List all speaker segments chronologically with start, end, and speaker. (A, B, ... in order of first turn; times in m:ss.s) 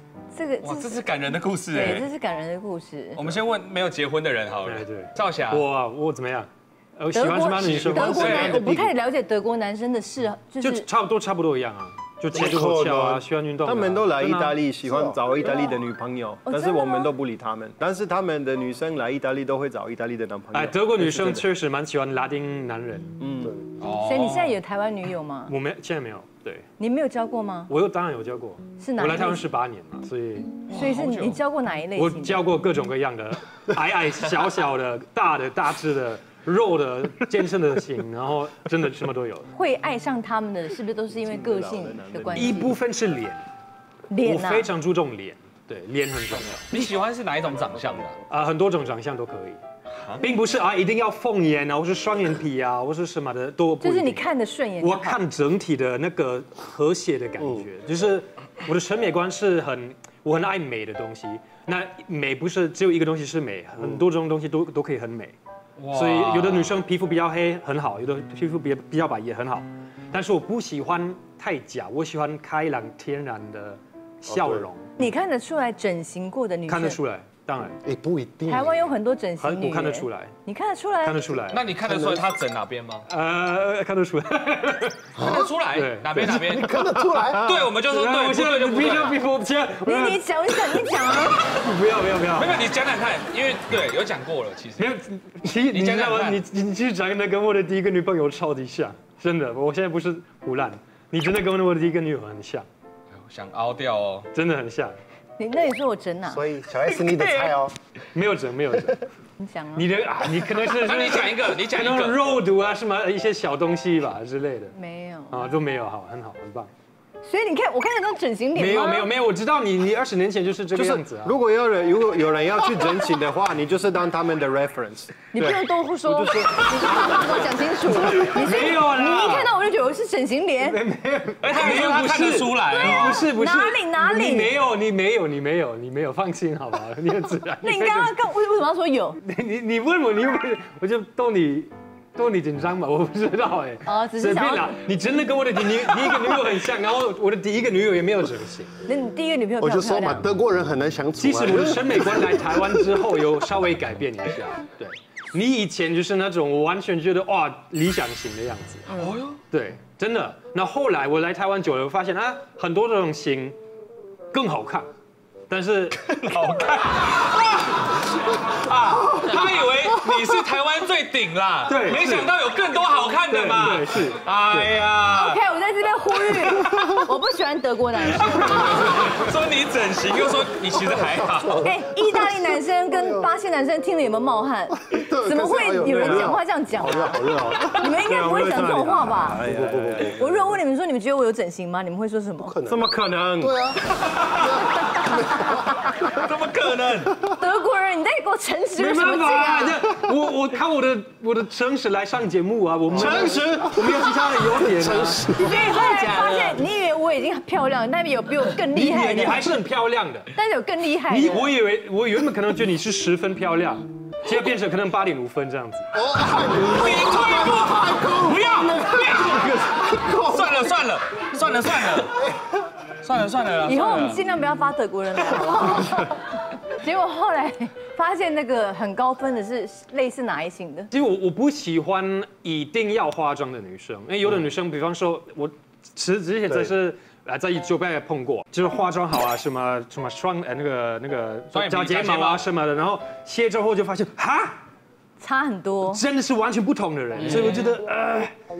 0:00.3-0:01.0 A
0:00.6-0:02.0 B
0:01.7-0:03.3 A
0:03.2-0:05.6 B
0:04.6-0:08.5 C
0:07.1-0:10.9 A
0:07.6-0:08.7 B
0:08.2-0:08.9 D
0:10.6-0:14.6 C
0:12.3-0:13.1 E
0:12.6-0:13.0 D
0:13.6-0:21.4 D
0:14.8-0:15.2 E
0:16.4-0:17.1 A
0:20.5-0:23.1 C
0:23.2-0:23.5 D
0:23.4-0:23.6 E
0:23.8-0:24.5 B
0:24.0-0:25.5 A
0:25.5-0:26.6 C
0:26.8-0:27.7 A
0:27.7-0:30.6 C
0:28.8-0:29.4 A
0:30.7-0:31.4 B
0:30.7-0:32.4 A
0:31.9-0:39.5 C
0:39.5-0:42.7 A
0:41.1-0:42.7 D
0:42.3-0:43.4 C
0:44.1-0:44.7 A
0:44.2-0:46.8 C
0:46.7-0:48.2 B
0:48.3-0:49.6 C
0:50.2-0:54.2 C
0:53.8-0:55.2 A
0:54.8-1:05.3 C
0:57.4-0:57.7 E
1:05.8-1:06.8 B
1:05.9-1:14.9 C
1:14.3-1:14.7 E
1:15.0-1:17.0 A
1:16.7-1:17.8 C
1:17.8-1:18.8 E
1:18.5-1:21.3 A
1:19.4-1:20.3 C
1:21.0-1:21.7 C
1:21.5-1:23.0 B
1:21.8-1:22.3 E
1:23.1-1:24.9 C
1:25.2-1:25.5 E
1:25.2-1:29.2 B
1:25.7-1:26.2 C
1:26.1-1:27.5 E
1:27.8-1:30.2 C
1:29.8-1:31.4 A
1:31.4-1:32.6 C
1:32.3-1:34.9 B
1:34.8-1:42.7 C
1:35.7-1:36.4 B
1:43.2-1:44.3 B
1:44.3-1:44.9 C
1:45.4-1:46.4 A
1:46.3-1:47.7 E
1:46.9-1:47.6 B
1:48.1-1:49.0 C
1:49.4-1:49.8 A
1:49.7-1:54.7 C
1:50.7-1:52.2 B
1:54.7-1:55.4 A
1:55.3-1:56.7 C
1:57.2-1:59.1 A
1:58.5-2:01.3 C
2:00.7-2:07.1 D
2:05.3-2:10.8 A
2:08.2-2:09.5 C
2:10.8-2:18.2 C
2:11.4-2:13.3 B
2:13.4-2:14.5 A
2:17.6-2:19.2 A
2:19.2-2:28.7 C
2:23.8-2:24.8 A
2:28.8-2:30.3 A
2:29.6-2:32.9 E
2:31.2-2:38.9 C
2:38.9-2:39.4 B
2:39.5-2:43.6 C
2:44.3-2:44.9 C
2:45.5-2:46.1 C
2:46.0-2:47.8 B
2:48.5-2:55.4 B
2:51.6-2:52.3 C
2:53.3-2:54.8 C
2:55.1-2:58.6 A
2:58.2-3:01.7 B
3:01.0-3:01.4 E
3:01.6-3:09.4 A
3:02.9-3:03.3 E
3:04.9-3:07.8 E
3:05.9-3:06.4 D
3:08.0-3:10.3 D
3:09.3-3:10.2 E
3:10.2-3:12.5 A
3:12.4-3:12.9 E
3:12.6-3:13.5 D
3:13.4-3:13.8 E
3:14.4-3:15.9 E
3:16.2-3:17.1 B
3:17.4-3:19.7 A
3:18.8-3:26.5 C
3:22.9-3:25.7 E
3:22.9-3:23.4 D
3:25.4-3:29.5 A
3:28.6-3:30.3 C
3:30.4-3:31.5 A
3:31.1-3:35.9 C
3:35.9-3:40.8 E
3:36.6-3:42.2 B
3:43.0-3:44.2 B
3:43.6-3:46.2 A
3:46.8-3:50.9 A
3:50.9-4:04.6 C
4:01.5-4:02.4 B
4:05.2-4:06.0 A
4:05.9-4:08.3 C
4:07.2-4:07.7 B